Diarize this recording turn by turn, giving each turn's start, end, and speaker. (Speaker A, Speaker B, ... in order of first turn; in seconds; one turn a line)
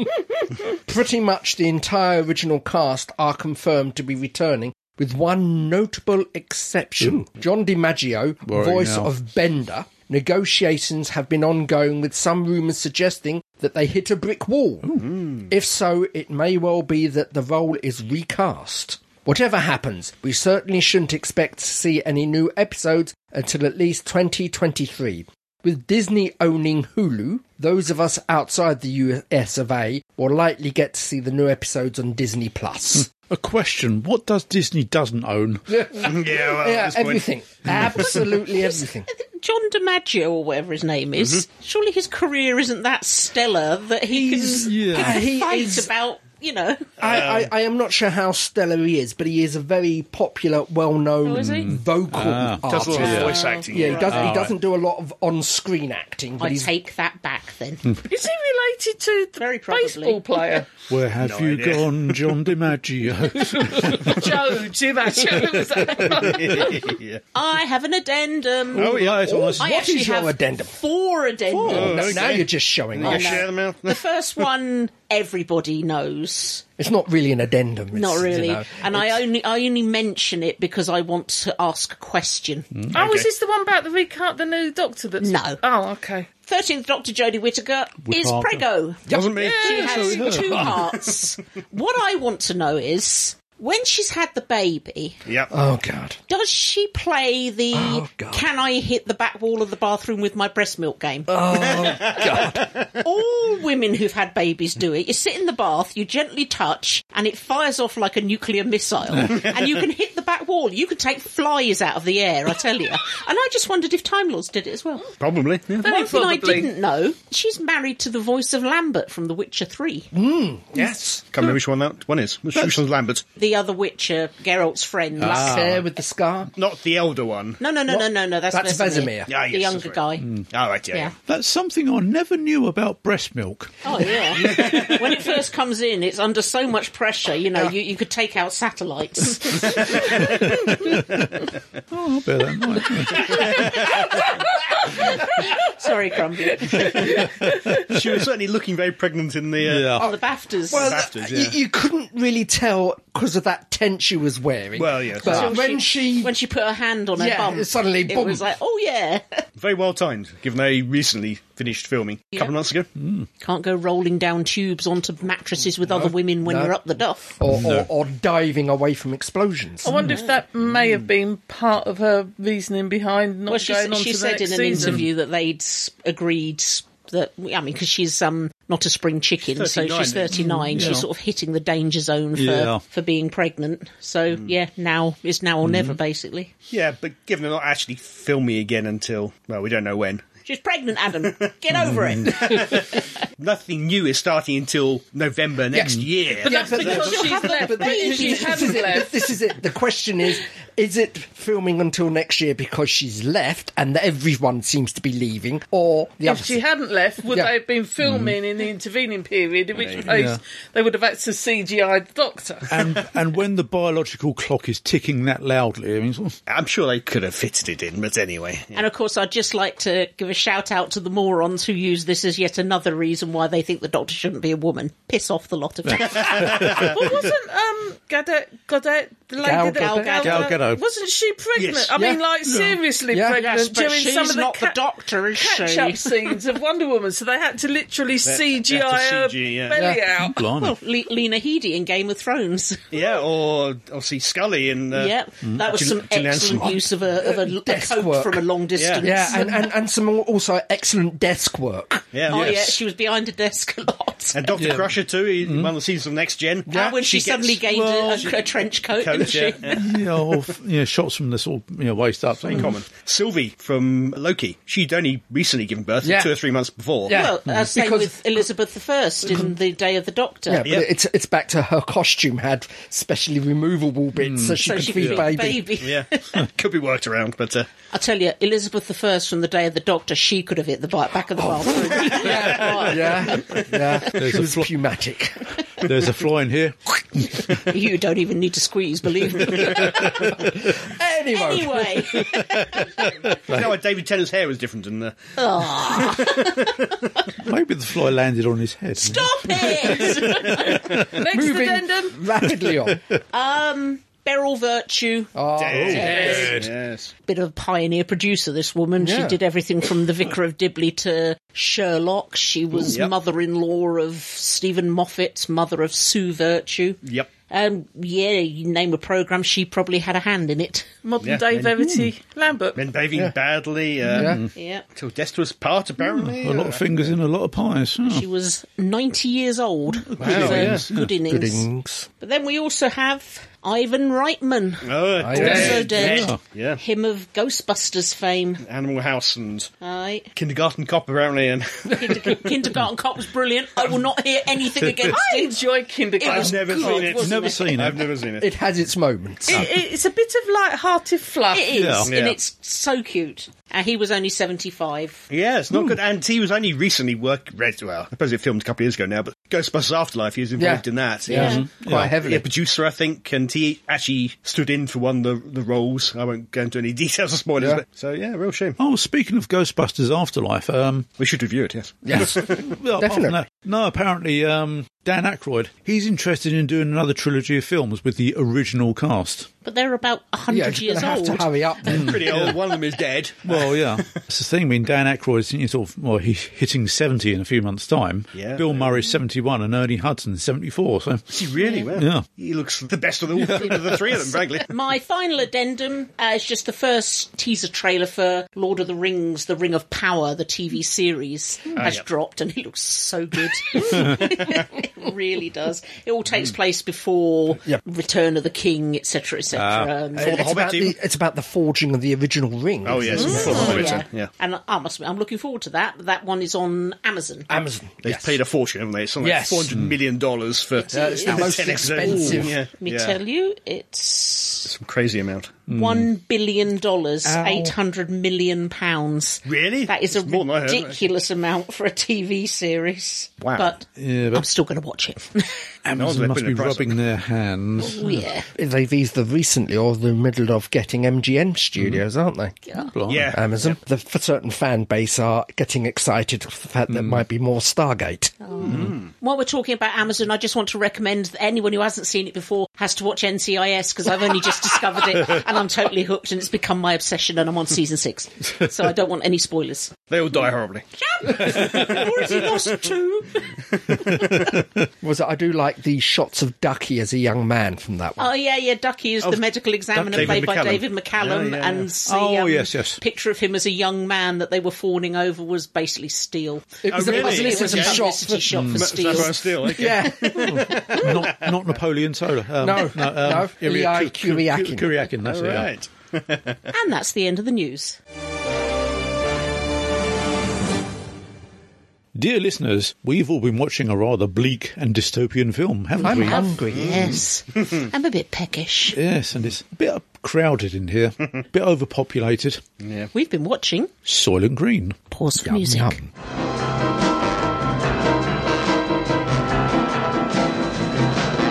Speaker A: 0.7-33.1
Speaker B: 8.5-9.1
Speaker B: 14.9-15.1
Speaker B: 33.0-35.8
Speaker A: 35.7-39.1
Speaker C: 36.0-37.3
Speaker D: 38.5-46.9
Speaker A: 44.1-45.9
Speaker B: 44.6-45.2
Speaker A: 47.0-56.7
Speaker C: 47.0-47.5
Speaker D: 51.2-51.8
Speaker B: 51.4-53.4
Speaker C: 52.6-54.5
Speaker D: 53.0-53.7
Speaker B: 53.9-54.5
Speaker D: 56.4-57.9
Speaker E: 58.0-60.7
Speaker D: 59.4-60.2
Speaker B: 60.9-64.5
Speaker C: 61.2-62.4
Speaker E: 63.3-66.9
Speaker C: 66.1-67.2
Speaker D: 67.3-69.0
Speaker B: 68.7-69.8
Speaker C: 68.8-69.5
Speaker A: 69.3-70.8
Speaker D: 69.6-72.3
Speaker A: 71.6-73.5
Speaker C: 71.7-74.0
Speaker D: 73.0-76.6
Speaker A: 76.8-79.2
Speaker D: 77.9-82.7
Speaker E: 82.9-86.3
Speaker C: 82.9-83.3
Speaker D: 85.2-85.6
Speaker D: 86.4-89.1
Speaker B: 88.0-88.6
Speaker A: 89.1-89.4
Speaker C: 89.1-90.3
Speaker E: 89.4-90.7
Speaker D: 89.6-95.2
Speaker B: 90.0-90.6
Speaker C: 95.3-95.5
Speaker A: 95.5-96.2
Speaker D: 96.3-102.0
Speaker A: 97.7-98.4
Speaker A: 101.3-102.7
Speaker C: 101.8-102.2
Speaker D: 103.0-115.1
Speaker C: 115.2-115.9
Speaker E: 115.8-116.7
Speaker D: 115.8-120.1
Speaker A: 120.1-121.2
Speaker C: 121.3-123.2
Speaker D: 123.3-125.6
Speaker B: 125.2-125.8
Speaker A: 125.3-126.5
Speaker C: 126.5-127.6
Speaker D: 127.6-130.3
Speaker A: 127.9-129.3
Speaker C: 129.2-131.1
Speaker B: 131.2-133.8
Speaker D: 133.8-140.2
Speaker C: 134.3-135.2
Speaker C: 139.7-140.2
Speaker B: 139.9-143.8
Speaker C: 143.3-143.7
Speaker D: 144.2-147.2
Speaker E: 146.6-147.8
Speaker B: 147.0-147.8
Speaker C: 147.8-150.0
Speaker B: 149.6-150.1
Speaker D: 150.0-151.0
Speaker A: 150.7-156.3
Speaker C: 150.7-151.6
Speaker C: 154.7-155.5
Speaker D: 155.2-159.4
Speaker A: 157.1-158.4
Speaker C: 159.6-162.9
Speaker B: 163.0-163.3
Speaker D: 163.4-167.4
Speaker A: 165.9-166.8
Speaker A: 167.4-170.0
Speaker B: 167.5-167.9
Speaker E: 169.8-175.0
Speaker D: 169.9-170.4
Speaker D: 173.5-186.5
Speaker B: 174.8-175.0
Speaker C: 179.4-180.9
Speaker B: 180.3-181.1
Speaker B: 182.3-182.8
Speaker B: 185.6-186.0
Speaker C: 186.7-190.2
Speaker D: 190.4-193.1
Speaker C: 191.3-197.1
Speaker B: 191.7-192.1
Speaker A: 195.7-206.6
Speaker E: 196.4-199.3
Speaker D: 196.7-199.0
Speaker E: 206.2-212.8
Speaker B: 208.0-208.3
Speaker C: 209.8-210.1
Speaker B: 210.1-210.4
Speaker B: 212.7-216.4
Speaker C: 216.5-218.8
Speaker D: 218.7-226.7
Speaker B: 225.9-227.2
Speaker C: 226.3-226.8
Speaker E: 226.6-234.8
Speaker D: 229.4-230.6
Speaker A: 229.4-230.3
Speaker B: 230.2-230.8
Speaker C: 231.6-231.9
Speaker B: 232.5-232.8
Speaker A: 233.1-233.4
Speaker D: 233.3-236.3
Speaker E: 235.3-240.4
Speaker C: 238.2-239.8
Speaker A: 239.7-240.0
Speaker B: 240.2-240.7
Speaker D: 240.5-243.0
Speaker C: 242.9-246.8
Speaker D: 244.9-249.6
Speaker A: 246.6-248.4
Speaker C: 248.8-249.1
Speaker A: 249.0-252.1
Speaker C: 252.1-252.6
Speaker D: 252.3-254.5
Speaker B: 252.3-252.7
Speaker C: 254.3-259.8
Speaker B: 254.6-255.7
Speaker A: 256.7-257.0
Speaker D: 256.7-259.8
Speaker B: 257.7-258.2
Speaker B: 259.7-262.8
Speaker C: 262.5-267.2
Speaker A: 266.0-266.3
Speaker A: 267.1-268.4
Speaker D: 267.1-270.7
Speaker A: 270.5-275.7
Speaker B: 274.2-275.2
Speaker D: 274.6-276.4
Speaker C: 275.8-277.7
Speaker D: 277.9-284.1
Speaker A: 281.4-285.5
Speaker C: 282.0-282.5
Speaker B: 284.1-284.7
Speaker B: 285.8-287.4
Speaker D: 287.5-290.5
Speaker A: 289.6-292.3
Speaker D: 291.3-293.3
Speaker C: 293.4-295.3
Speaker B: 293.5-293.7
Speaker D: 295.4-296.8
Speaker C: 295.9-296.8
Speaker B: 297.4-301.0
Speaker D: 299.0-300.9
Speaker E: 300.5-302.2
Speaker A: 301.2-303.0
Speaker B: 302.9-303.2
Speaker D: 303.3-306.5
Speaker A: 305.3-306.3
Speaker C: 305.6-307.1
Speaker B: 305.7-306.7
Speaker E: 306.1-306.5
Speaker D: 307.2-320.9
Speaker A: 309.0-309.4
Speaker C: 317.0-317.3
Speaker E: 321.0-322.8
Speaker C: 321.2-321.7
Speaker C: 322.7-324.4
Speaker B: 324.1-324.5
Speaker A: 324.1-324.4
Speaker D: 324.5-324.8
Speaker C: 324.9-327.2
Speaker B: 326.0-328.2
Speaker D: 328.0-331.6
Speaker B: 330.1-331.1
Speaker C: 330.2-330.9
Speaker A: 331.1-332.1
Speaker D: 332.2-338.6
Speaker C: 334.8-336.8
Speaker A: 335.2-336.0
Speaker B: 335.6-336.4
Speaker C: 338.6-339.7
Speaker D: 339.8-340.3
Speaker C: 340.4-342.5
Speaker D: 341.9-345.6
Speaker B: 344.8-345.1
Speaker E: 345.0-347.5
Speaker D: 346.2-347.7
Speaker C: 346.2-348.5
Speaker B: 347.0-348.0
Speaker A: 348.4-349.6
Speaker E: 349.5-352.0
Speaker D: 351.5-355.2
Speaker B: 351.7-352.1
Speaker C: 352.0-352.4
Speaker C: 355.3-361.6
Speaker A: 360.6-362.4
Speaker B: 361.3-362.2
Speaker D: 361.3-361.6
Speaker C: 362.1-368.8
Speaker B: 368.8-371.1
Speaker C: 371.2-372.7
Speaker A: 372.0-373.4
Speaker B: 372.1-379.5
Speaker D: 379.6-381.5
Speaker A: 380.5-382.5
Speaker B: 381.8-382.5
Speaker C: 381.9-384.2
Speaker B: 383.4-391.3
Speaker C: 388.3-389.0
Speaker C: 391.3-394.7
Speaker D: 391.6-391.9
Speaker B: 391.9-392.2
Speaker B: 393.4-393.8
Speaker D: 394.7-410.4
Speaker C: 401.8-402.0
Speaker B: 409.5-409.9
Speaker A: 410.1-414.0
Speaker C: 410.2-410.9
Speaker C: 412.8-414.3
Speaker B: 413.1-413.8
Speaker E: 413.2-413.8
Speaker D: 413.2-417.5
Speaker A: 417.5-418.4
Speaker C: 418.0-423.2
Speaker A: 419.2-419.8
Speaker D: 420.8-424.7
Speaker A: 420.9-422.6
Speaker C: 424.6-425.6
Speaker B: 425.7-426.1
Speaker D: 425.7-435.7
Speaker B: 427.2-427.7
Speaker C: 429.4-431.0
Speaker C: 433.4-433.8
Speaker B: 433.9-434.4
Speaker B: 435.8-438.2
Speaker C: 435.9-437.0
Speaker D: 437.8-438.5
Speaker A: 438.5-442.6
Speaker D: 442.7-442.9
Speaker B: 442.9-443.4
Speaker C: 443.1-443.8
Speaker A: 443.3-448.5
Speaker B: 446.9-447.2
Speaker D: 448.4-460.0
Speaker C: 448.6-449.1
Speaker C: 460.1-460.8
Speaker D: 461.0-463.5
Speaker C: 461.5-462.7
Speaker D: 464.0-464.5
Speaker B: 464.1-464.6
Speaker A: 465.0-468.3
Speaker D: 468.2-479.5
Speaker C: 469.9-471.9
Speaker B: 470.1-470.4
Speaker B: 472.1-473.0
Speaker A: 476.8-478.7
Speaker C: 476.9-478.1
Speaker B: 478.5-478.9
Speaker C: 478.7-481.6
Speaker A: 479.6-481.1
Speaker B: 480.5-485.7
Speaker D: 480.6-481.0
Speaker A: 482.6-485.0
Speaker C: 485.2-486.6
Speaker D: 486.7-488.0
Speaker B: 492.1-496.4
Speaker A: 496.0-497.2
Speaker D: 496.1-499.0
Speaker C: 496.7-497.1
Speaker B: 498.9-502.6
Speaker C: 502.8-503.1
Speaker D: 503.1-503.9
Speaker B: 504.1-505.0
Speaker D: 505.1-505.9
Speaker A: 505.4-506.1